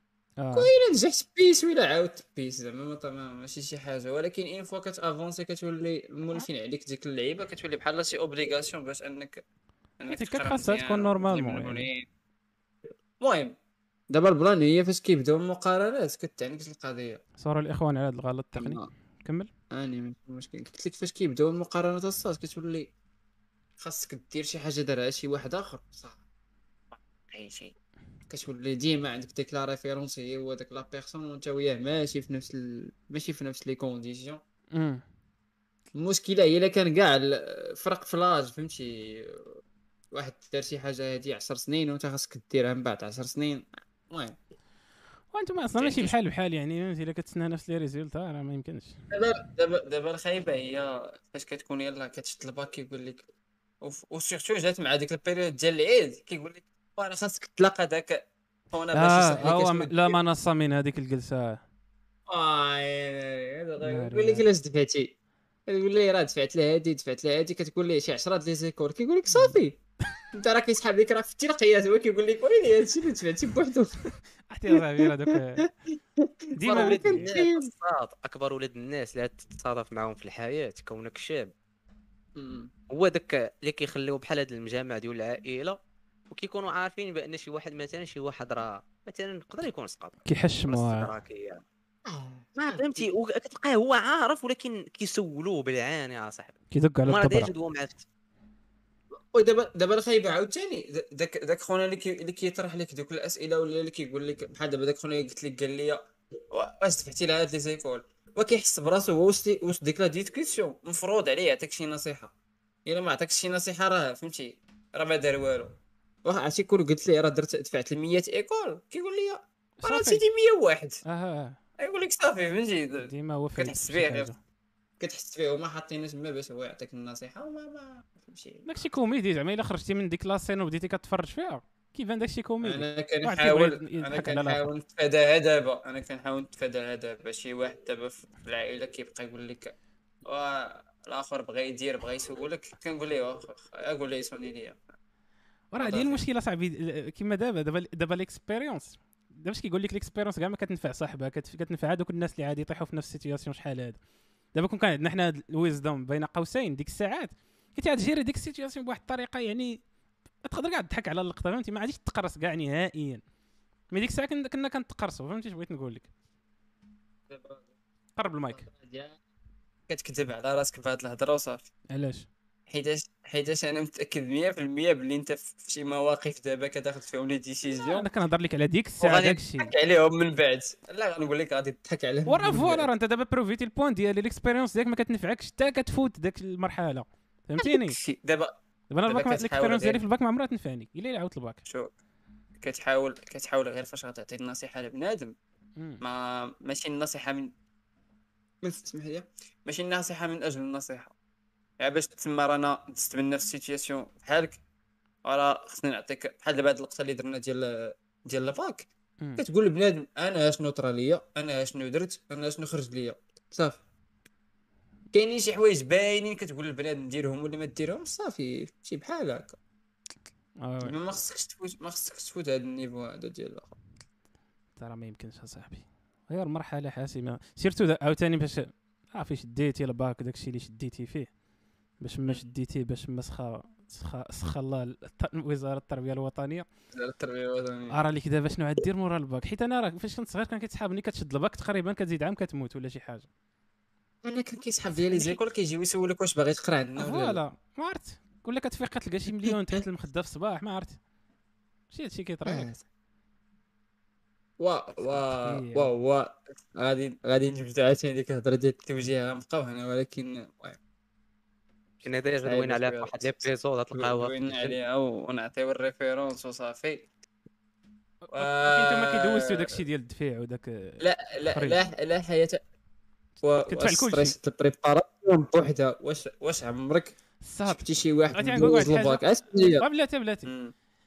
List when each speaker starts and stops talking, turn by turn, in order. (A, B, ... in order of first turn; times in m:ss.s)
0:00.4-0:00.7 A
0:00.5-0:09.4 B
0:10.0-0:12.0 B
0:10.1-0:11.9 A
0:13.2-0:13.6 B
0:14.1-0:17.2 B
0:17.4-0:19.5 A
0:18.6-0:18.8 B
0:19.7-0:22.9 B
0:23.8-0:26.2 B
0:26.9-0:27.7 B
0:28.3-0:34.4 B
0:34.7-0:35.0 A
0:36.0-0:39.6 B
0:40.1-0:44.4 B
0:45.3-0:49.0 A
0:45.8-0:46.1 B
0:49.1-0:53.2 B
0:53.8-1:00.2 B
0:58.9-1:01.6 A
1:02.3-1:05.1 B
1:03.8-1:04.4 A
1:05.7-1:09.8 B
1:09.3-1:09.6 A
1:10.3-1:13.9 B
1:14.5-1:15.6 A
1:15.0-1:15.3 B
1:15.9-1:17.7 B
1:16.6-1:17.3 A
1:16.7-1:21.5 C
1:22.4-1:22.7 B
1:22.9-1:25.8 C
1:26.3-1:30.2 C
1:30.2-1:31.1 A
1:30.7-1:31.6 C
1:32.0-1:33.1 B
1:32.6-1:38.0 C
1:36.7-1:37.5 A
1:39.3-1:46.0 B
1:46.5-1:52.3 B
1:52.8-2:01.0 B
1:59.8-2:00.2 A
2:01.0-2:01.6 A
2:01.8-2:04.3 B
2:03.0-2:04.4 A
2:05.0-2:08.6 B
2:08.6-2:14.6 A
2:12.6-2:24.8 B
2:25.7-2:34.0 A
2:25.8-2:26.2 B
2:34.5-2:39.8 A
2:40.4-2:43.2 A
2:43.9-2:46.1 A
2:47.3-2:47.7 B
2:48.2-2:48.7 A
2:48.5-2:49.2 B
2:49.9-2:51.7 B
2:51.9-2:52.3 A
2:52.7-2:58.1 B
2:57.7-2:59.7 A
2:59.0-3:02.9 B
3:02.2-3:08.0 A
3:07.6-3:08.5 B
3:08.9-3:11.6 A
3:09.1-3:10.0 B
3:11.6-3:11.9 B
3:12.6-3:15.3 B
3:16.0-3:17.5 B
3:18.6-3:21.1 B
3:21.8-3:24.6 B
3:25.2-3:28.8 B
3:29.4-3:33.8 B
3:35.1-3:39.6 B
3:40.6-3:41.0 A
3:40.8-3:43.7 B
3:44.8-3:51.3 A
3:52.0-3:56.6 A
3:56.9-3:58.0 B
3:57.9-4:03.3 A
4:04.2-4:07.4 B
4:04.9-4:05.4 A
4:07.0-4:11.0 A
4:11.9-4:12.7 A
4:12.4-4:12.8 B
4:14.6-4:20.8 B
4:15.4-4:15.9 A
4:22.0-4:24.8 C
4:22.4-4:27.1 B
4:28.2-4:31.8 A
4:28.3-4:29.8 B
4:31.0-4:32.6 B
4:33.4-4:37.2 B
4:33.6-4:34.3 A
4:37.4-4:40.5 A
4:37.7-4:39.8 B
4:40.4-4:40.7 B